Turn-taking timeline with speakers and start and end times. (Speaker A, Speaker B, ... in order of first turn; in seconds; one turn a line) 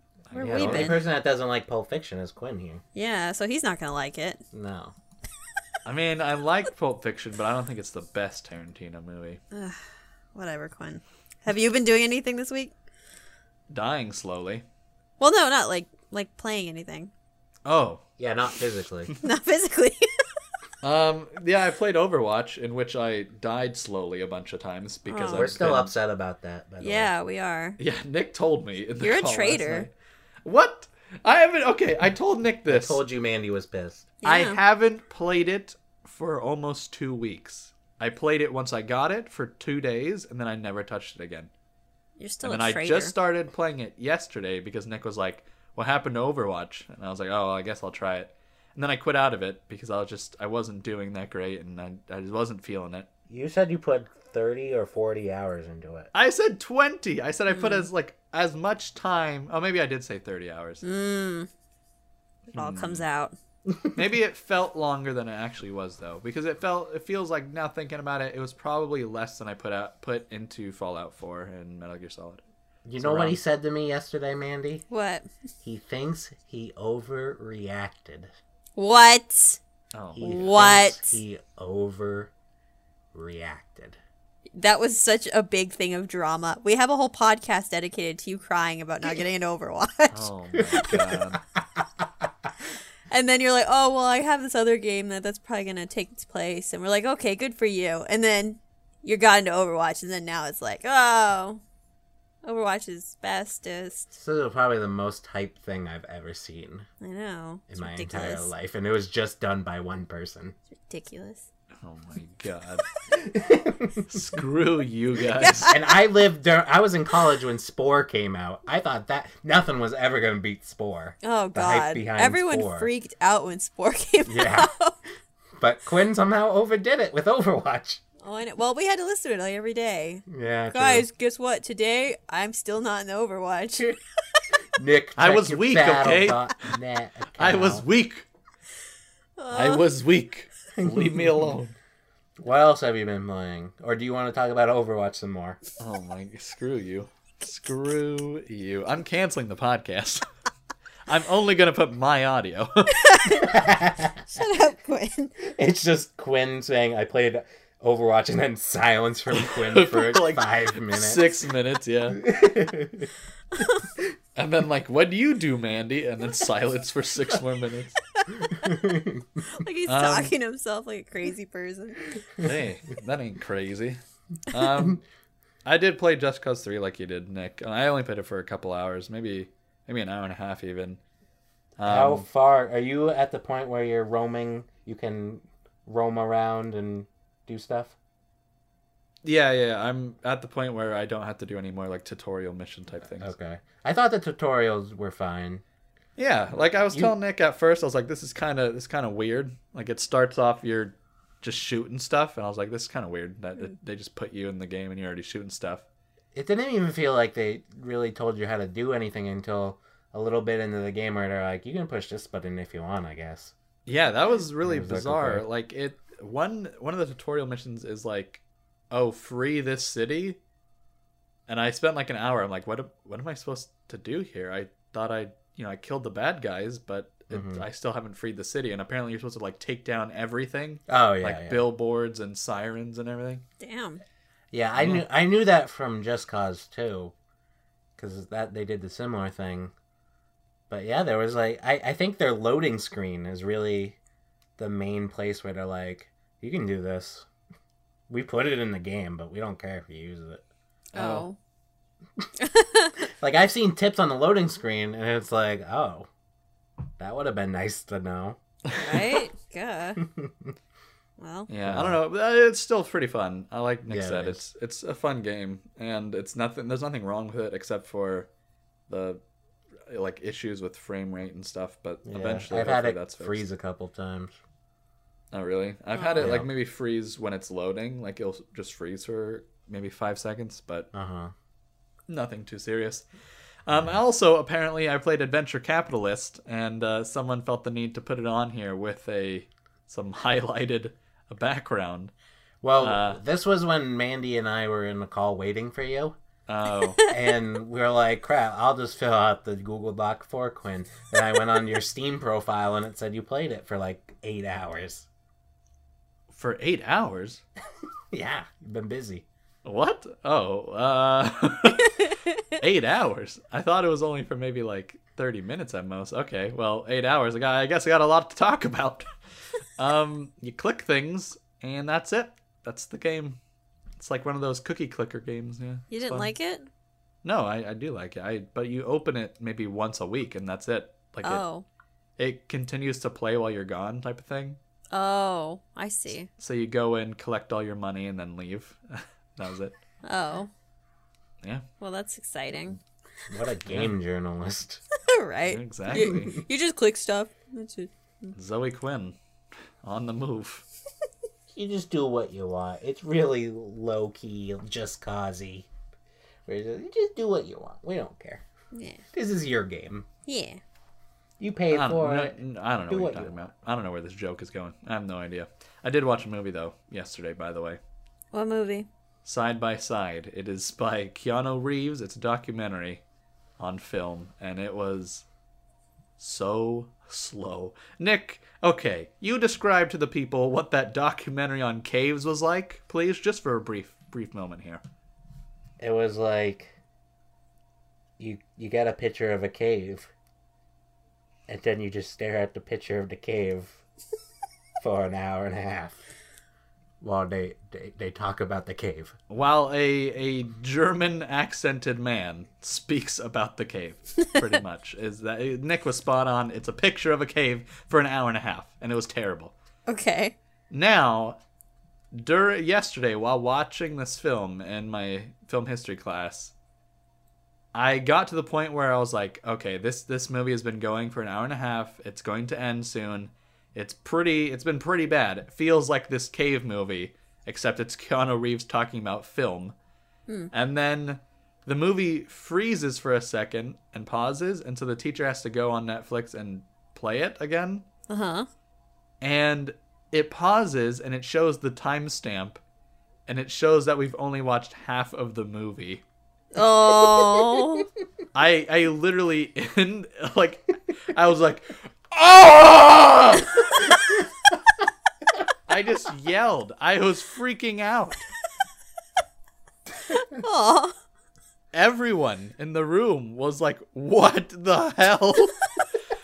Speaker A: 0.3-1.0
Speaker B: 0.3-1.0
Speaker C: 0.3-2.8
Speaker B: 2.9-4.4
Speaker C: 4.5-4.9
Speaker A: 5.8-9.4
Speaker B: 9.5-9.8
Speaker B: 10.3-12.7
Speaker A: 13.7-14.6
Speaker B: 15.2-17.1
Speaker A: 17.6-18.0
Speaker C: 18.2-19.1
Speaker B: 19.2-20.1
Speaker A: 20.8-25.9
Speaker B: 25.1-25.5
Speaker C: 25.3-27.1
Speaker B: 26.8-27.8
Speaker A: 27.8-29.9
Speaker B: 29.0-29.9
Speaker A: 30.4-33.0
Speaker C: 32.7-34.1
Speaker B: 34.2-34.6
Speaker A: 34.2-41.5
Speaker B: 42.2-43.1
Speaker A: 42.4-53.1
Speaker C: 53.3-56.1
Speaker A: 56.1-60.8
Speaker B: 57.5-57.9
Speaker B: 60.8-61.5
Speaker A: 62.5-63.0
Speaker B: 62.5-63.3
Speaker C: 63.6-64.0
Speaker A: 63.9-72.4
Speaker C: 72.8-74.8
Speaker A: 73.0-73.4
Speaker B: 74.9-75.3
Speaker C: 75.6-78.3
Speaker B: 78.8-79.6
Speaker A: 79.9-80.3
Speaker C: 80.1-82.3
Speaker B: 80.2-81.2
Speaker C: 83.1-84.0
Speaker B: 84.5-90.3
Speaker A: 90.1-91.4
Speaker C: 90.5-91.8
Speaker B: 93.1-101.6
Speaker B: 102.4-104.1
Speaker C: 104.1-106.8
Speaker B: 107.0-108.5
Speaker C: 107.7-110.5
Speaker B: 110.9-111.4
Speaker A: 111.8-112.8
Speaker C: 113.1-114.2
Speaker A: 114.1-115.7
Speaker B: 115.4-115.9
Speaker C: 115.7-122.9
Speaker B: 121.2-124.9
Speaker C: 124.2-124.7
Speaker C: 125.6-128.0
Speaker B: 128.2-134.0
Speaker C: 130.3-131.1
Speaker C: 134.7-137.8
Speaker A: 135.2-136.8
Speaker A: 137.4-138.2
Speaker B: 139.4-139.8
Speaker A: 139.5-141.7
Speaker C: 140.8-141.5
Speaker C: 142.4-145.6
Speaker A: 145.8-150.2
Speaker A: 151.1-153.4
Speaker B: 153.0-153.6
Speaker C: 153.4-154.2
Speaker B: 154.3-155.4
Speaker C: 155.4-161.3
Speaker A: 159.3-162.3
Speaker C: 162.2-163.1
Speaker A: 164.3-168.0
Speaker B: 168.2-168.8
Speaker C: 168.6-169.2
Speaker B: 169.4-172.1
Speaker A: 169.9-170.3
Speaker A: 172.4-175.0
Speaker A: 175.6-181.0
Speaker A: 181.8-182.2
Speaker C: 181.8-187.9
Speaker A: 189.2-193.3
Speaker C: 193.2-195.6
Speaker A: 196.2-205.8
Speaker C: 196.7-197.1
Speaker C: 206.3-213.5
Speaker A: 213.8-220.4
Speaker C: 214.6-215.4
Speaker A: 221.5-233.4
Speaker C: 227.3-227.6
Speaker C: 230.9-231.6
Speaker B: 233.6-234.0
Speaker C: 234.5-237.1
Speaker A: 234.8-235.0
Speaker C: 238.0-239.7
Speaker C: 240.7-244.0
Speaker C: 244.6-247.2
Speaker C: 248.1-250.4
Speaker A: 250.9-251.2
Speaker B: 250.9-251.4
Speaker B: 252.4-253.0
Speaker C: 253.2-256.1
Speaker C: 257.0-258.4
Speaker A: 258.7-259.2
Speaker B: 258.8-260.0
Speaker C: 260.0-260.5
Speaker B: 261.2-261.5
Speaker A: 261.5-268.3
Speaker C: 261.6-262.0
Speaker C: 263.9-264.4
Speaker A: 268.9-269.2
Speaker A: 269.9-273.4
Speaker C: 272.0-274.3
Speaker A: 275.3-280.9
Speaker B: 275.9-276.3
Speaker C: 276.2-276.5
Speaker C: 280.9-281.3
Speaker A: 282.1-283.1
Speaker A: 283.6-292.1
Speaker C: 283.7-283.9
Speaker C: 292.6-296.2
Speaker A: 292.8-293.2
Speaker A: 296.5-297.0
Speaker C: 297.1-305.1
Speaker A: 306.3-307.4
Speaker C: 308.1-309.2
Speaker A: 309.6-319.1
Speaker A: 319.8-323.4
Speaker A: 324.0-326.3
Speaker B: 325.9-326.7
Speaker A: 327.2-331.4
Speaker B: 331.2-331.6
Speaker A: 332.2-334.6
Speaker B: 334.9-336.3
Speaker A: 336.4-339.7
Speaker B: 340.0-340.5
Speaker B: 341.8-342.8
Speaker C: 343.3-344.8
Speaker B: 345.0-348.3
Speaker A: 345.4-346.4
Speaker C: 345.9-346.2
Speaker A: 348.3-349.1
Speaker A: 349.8-350.6
Speaker C: 351.5-355.7
Speaker C: 356.4-358.4
Speaker B: 358.7-359.0
Speaker C: 359.1-360.1
Speaker B: 360.2-360.6
Speaker C: 361.4-362.4
Speaker A: 361.7-367.8
Speaker C: 362.9-363.4
Speaker B: 368.3-368.9
Speaker A: 369.2-373.0
Speaker A: 373.6-375.2
Speaker A: 376.2-384.8
Speaker C: 385.8-386.8
Speaker C: 388.2-390.1
Speaker C: 391.5-393.8
Speaker C: 394.8-396.0
Speaker C: 397.0-399.1
Speaker A: 399.3-409.5
Speaker B: 409.9-410.3
Speaker A: 410.7-411.4
Speaker A: 412.1-416.5
Speaker A: 417.7-429.7
Speaker A: 430.5-437.8
Speaker B: 438.1-438.5
Speaker A: 439.2-442.6
Speaker A: 443.3-446.0
Speaker B: 446.5-447.9
Speaker C: 447.4-447.6
Speaker A: 448.3-453.9
Speaker A: 455.7-458.2
Speaker B: 460.1-460.9
Speaker A: 461.7-465.7